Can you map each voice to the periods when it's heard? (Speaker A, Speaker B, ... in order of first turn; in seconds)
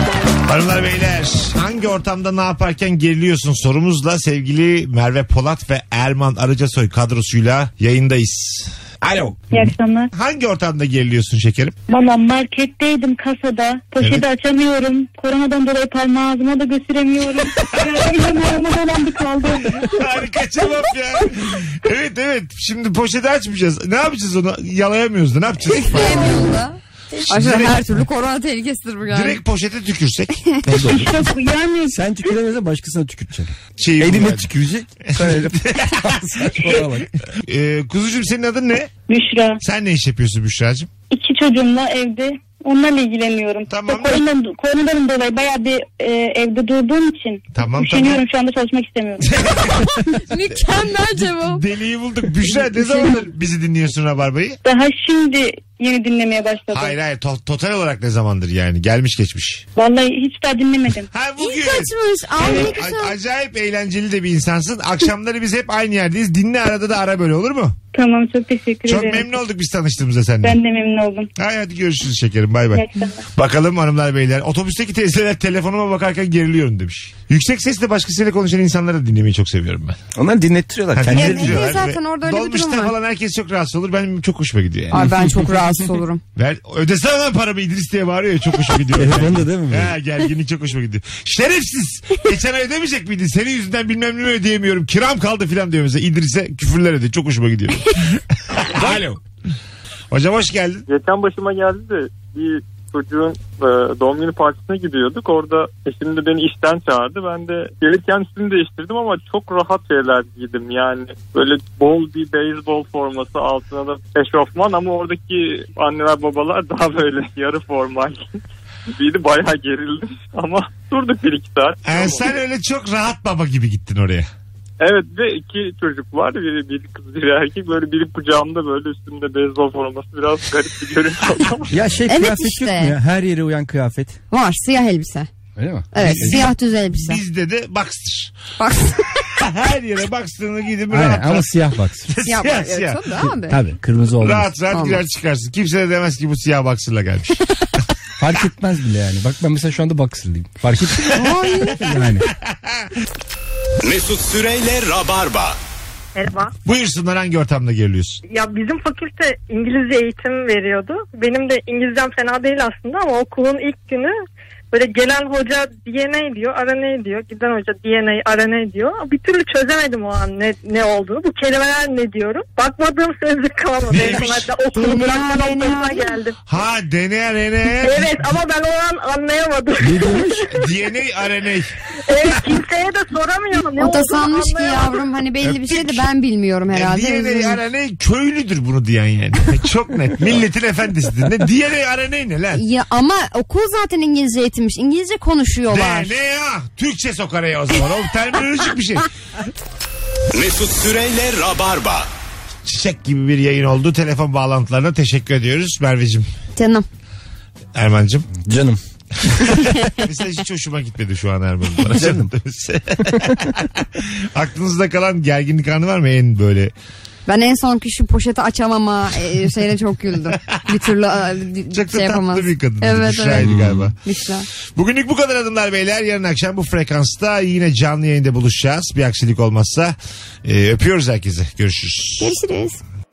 Speaker A: 0.4-9.4, 10.1-11.8, 19.8-26.5, 27.3-27.8, 29.1-30.4, 33.8-34.5, 35.1-38.9, 39.6-40.9, 43.7-44.2, 47.5-48.2, 49.3-49.9, 51.1-54.6, 56.7-59.6, 61.1-67.8, 68.9-70.6, 71.4-80.0, 80.9-85.0, 86.3-99.2, 100.1-100.8, 121.8-124.3, 136.0-138.3, 139.3-141.5, 142.1-143.0, 144.2-147.4, 152.5-152.9, 156.6-158.2, 173.9-174.5, 176.5-178.2, 180.5-181.7, 185.4-186.1, 186.7-192.6, 195.7-199.1, 202.7-206.3, 207.7-208.3, 209.3-216.7, 221.7-223.9, 224.8-232.3
Speaker B: 9.5-10.1, 11.9-20.1, 30.9-32.0, 39.1-39.6, 41.1-49.4, 54.6-56.9, 59.8-61.1, 62.4-62.8, 67.9-69.3, 70.4-71.3, 72.7-73.2
Speaker C: 25.7-29.4, 49.8-51.6, 61.4-63.1, 81.1-82.9, 84.9-86.2, 132.1-132.9, 134.3-135.3, 135.9-137.2, 138.6-139.2, 142.2-143.6, 144.7-145.0, 151.1-151.9, 174.7-176.1, 183.8-187.6, 192.5-196.1, 206.6-206.8, 209.5-210.0, 217.3-223.5, 224.0-224.5, 232.2-232.8
Speaker D: 30.6-31.1, 31.9-37.1, 80.1-81.8, 84.9-85.9, 88.9-89.9, 131.7-134.2, 135.6-136.4, 140.9-142.1, 143.2-144.5, 148.2-152.3, 179.8-180.5, 208.4-208.8, 211.9-212.3, 213.0-213.3, 223.4-223.9
Speaker E: 100.9-118.4, 118.9-122.3, 124.8-131.8
Speaker F: 153.8-155.6, 200.3-202.1
Speaker G: 156.1-156.5, 158.3-164.1, 164.7-176.3, 177.7-180.5, 182.1-185.1